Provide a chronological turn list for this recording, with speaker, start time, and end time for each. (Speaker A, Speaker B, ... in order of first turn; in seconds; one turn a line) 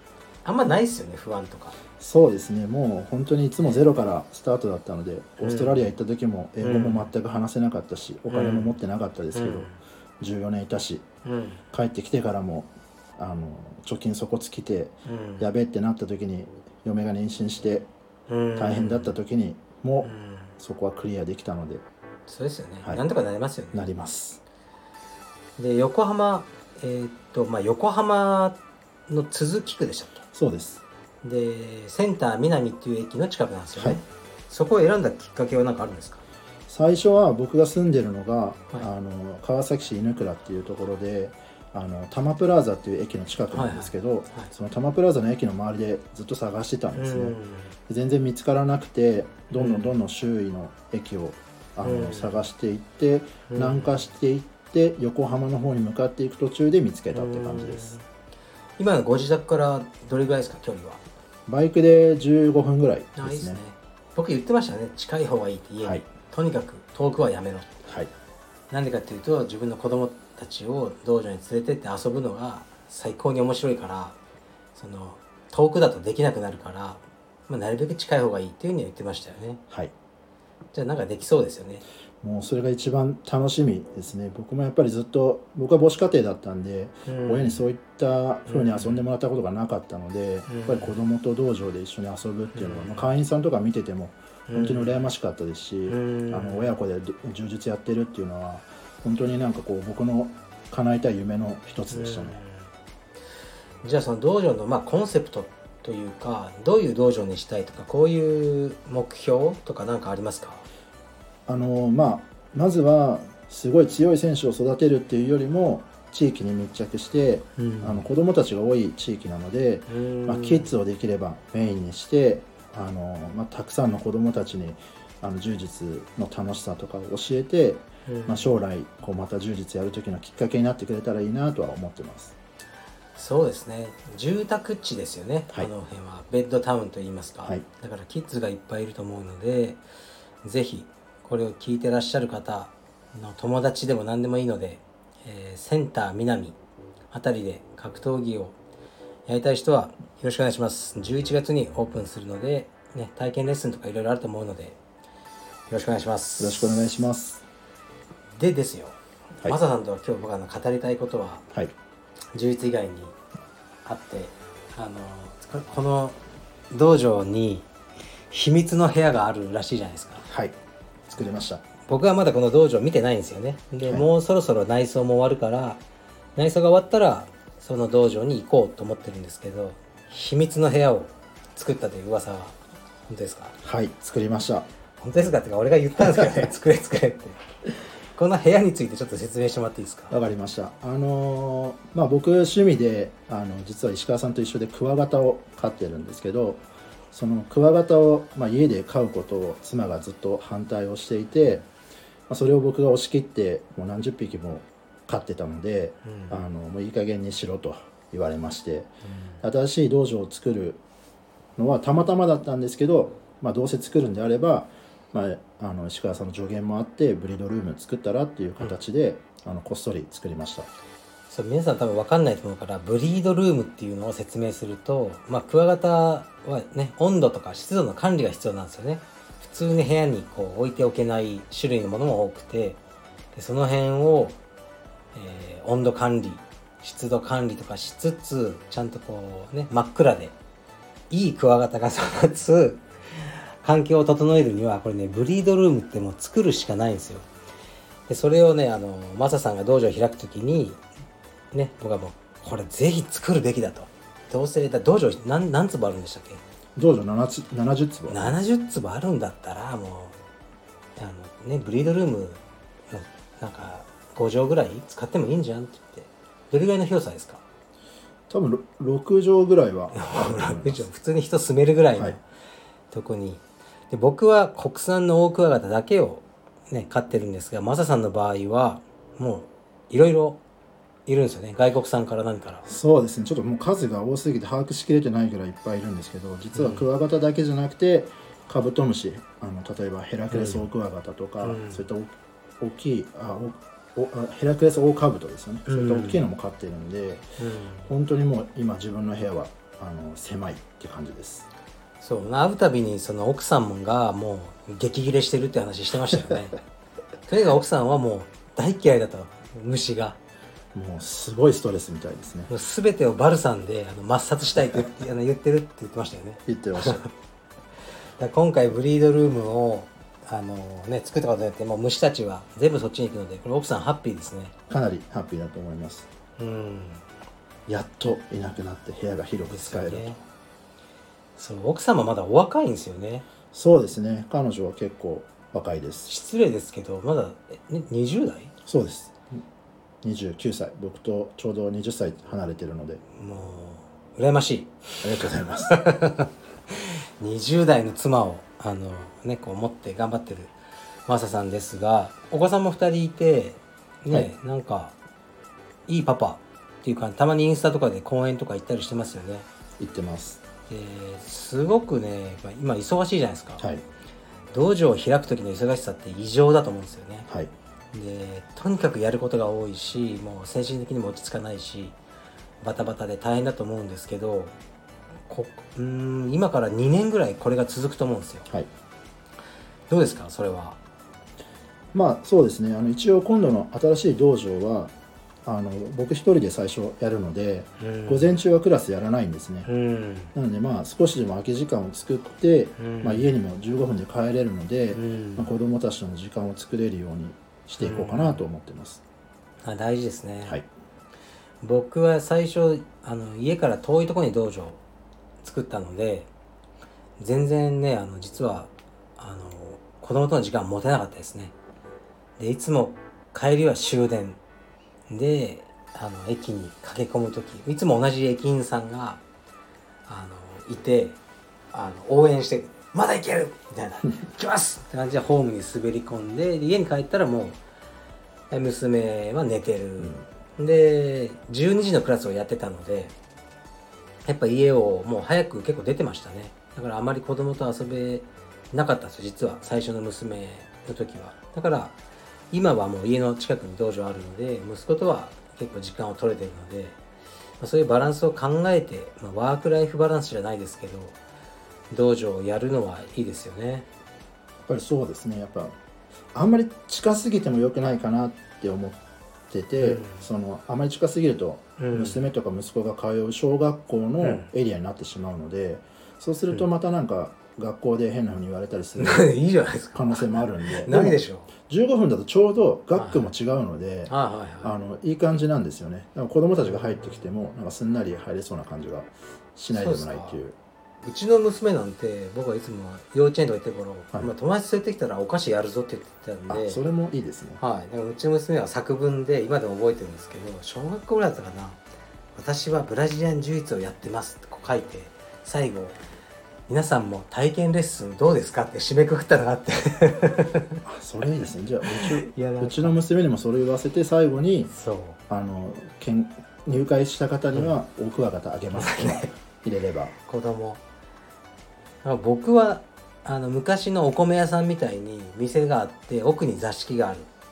Speaker A: 0.4-1.8
Speaker B: 2.0-11.1
Speaker A: 3.6-3.9
Speaker A: 5.4-5.9
Speaker A: 6.6-7.1
Speaker A: 8.3-8.8
Speaker A: 9.3-9.8
Speaker A: 11.2-11.6
Speaker B: 11.7-17.9
Speaker A: 15.1-15.5
Speaker A: 18.3-19.2
Speaker B: 18.6-21.8
Speaker A: 20.0-20.5
Speaker A: 22.3-23.9
Speaker B: 23.7-24.4
Speaker A: 25.6-28.6
Speaker A: 29.1-30.2
Speaker B: 30.3-30.8
Speaker A: 31.2-36.2
Speaker B: 33.8-34.0
Speaker B: 36.7-58.0
Speaker A: 43.5-44.5
Speaker A: 47.0-47.7
Speaker A: 49.6-49.9
Speaker A: 51.8-52.4
Speaker A: 53.5-53.9
Speaker A: 57.1-58.0
Speaker A: 58.8-61.0
Speaker B: 61.5-63.6
Speaker A: 63.2-67.7
Speaker B: 67.9-68.1
Speaker A: 68.7-74.2
Speaker A: 74.8-79.6
Speaker A: 80.7-81.8
Speaker B: 82.2-102.4
Speaker A: 87.1-87.6
Speaker A: 88.5-89.0
Speaker A: 90.5-90.9
Speaker A: 92.5-93.1
Speaker A: 94.5-95.1
Speaker A: 95.9-96.8
Speaker A: 101.9-102.7
Speaker A: 103.8-110.7
Speaker B: 111.5-132.3
Speaker A: 117.6-118.1
Speaker A: 119.9-120.7
Speaker A: 128.1-128.5
Speaker A: 133.2-139.8
Speaker A: 140.4-146.6
Speaker A: 147.1-148.6
Speaker A: 149.3-154.8
Speaker A: 155.7-156.8
Speaker B: 156.4-157.4
Speaker A: 158.4-161.4
Speaker A: 162.3-163.2
Speaker A: 163.8-166.2
Speaker A: 166.7-167.7
Speaker A: 168.3-170.3
Speaker B: 170.3-170.5
Speaker B: 171.1-171.6
Speaker A: 171.9-175.8
Speaker B: 173.8-174.1
Speaker A: 176.4-183.6
Speaker B: 183.6-184.7
Speaker A: 185.0-187.4
Speaker A: 188.2-190.2
Speaker B: 190.1-201.7
Speaker B: 202.3-210.8
Speaker A: 206.1-206.4
Speaker A: 209.1-209.4
Speaker B: 211.6-220.7
Speaker A: 221.3-232.8
Speaker A: 233.3-234.4
Speaker A: 235.1-240.4
Speaker A: 241.1-247.3
Speaker A: 248.1-250.8
Speaker A: 251.5-256.4
Speaker B: 256.8-258.4
Speaker A: 258.1-260.2
Speaker A: 261.0-267.4
Speaker B: 268.3-270.9
Speaker A: 269.9-272.2
Speaker A: 272.9-280.4
Speaker A: 281.1-282.7
Speaker B: 282.7-297.3
Speaker A: 286.5-286.9
Speaker A: 290.3-290.7
Speaker A: 291.4-291.9
Speaker A: 295.7-296.2
Speaker A: 297.4-297.9
Speaker B: 297.9-301.5
Speaker A: 302.0-306.6
Speaker A: 307.3-310.2
Speaker B: 310.7-312.5
Speaker A: 312.5-317.1
Speaker B: 316.5-317.1
Speaker A: 318.2-324.5
Speaker B: 324.7-326.1
Speaker A: 326.4-327.0
Speaker B: 327.7-330.2
Speaker A: 329.5-330.2
Speaker A: 331.4-333.2
Speaker B: 333.5-336.1
Speaker A: 336.1-338.5
Speaker B: 338.7-339.4
Speaker B: 340.0-343.0
Speaker A: 343.2-350.5
Speaker B: 345.0-345.8
Speaker A: 351.1-354.9
Speaker A: 355.9-359.5
Speaker B: 359.8-360.4
Speaker A: 360.7-363.7
Speaker A: 364.5-367.3
Speaker A: 367.9-372.0
Speaker A: 372.6-374.5
Speaker A: 375.3-378.5
Speaker A: 379.9-380.8
Speaker B: 381.9-384.9
Speaker B: 385.5-389.7
Speaker A: 387.8-388.4
Speaker A: 389.7-390.3
Speaker B: 390.4-399.0
Speaker A: 392.8-393.3
Speaker A: 394.9-395.5
Speaker A: 397.8-398.4
Speaker A: 399.6-400.6
Speaker A: 401.6-404.8
Speaker A: 405.4-406.3
Speaker A: 407.2-411.5
Speaker A: 412.4-414.4
Speaker A: 415.1-419.2
Speaker A: 420.1-421.2
Speaker A: 421.7-427.6
Speaker A: 428.5-433.1
Speaker A: 434.3-442.0
Speaker A: 442.5-447.0
Speaker A: 447.6-451.2
Speaker A: 451.9-453.9
Speaker B: 454.6-455.7
Speaker B: 456.3-469.3
Speaker A: 459.8-460.2
Speaker A: 461.8-462.2
Speaker A: 464.2-464.5
Speaker A: 469.0-471.5
Speaker B: 469.9-480.6
Speaker A: 472.9-473.3
Speaker A: 474.1-474.7
Speaker A: 479.7-480.4
Speaker A: 481.0-486.8
Speaker B: 486.5-487.6
Speaker A: 487.6-491.8
Speaker A: 492.4-496.0
Speaker A: 496.7-500.8
Speaker B: 500.9-504.7
Speaker A: 501.9-503.0
Speaker A: 504.7-505.2
Speaker B: 505.3-510.1
Speaker A: 508.7-509.3
Speaker A: 510.2-510.8
Speaker A: 512.0-517.3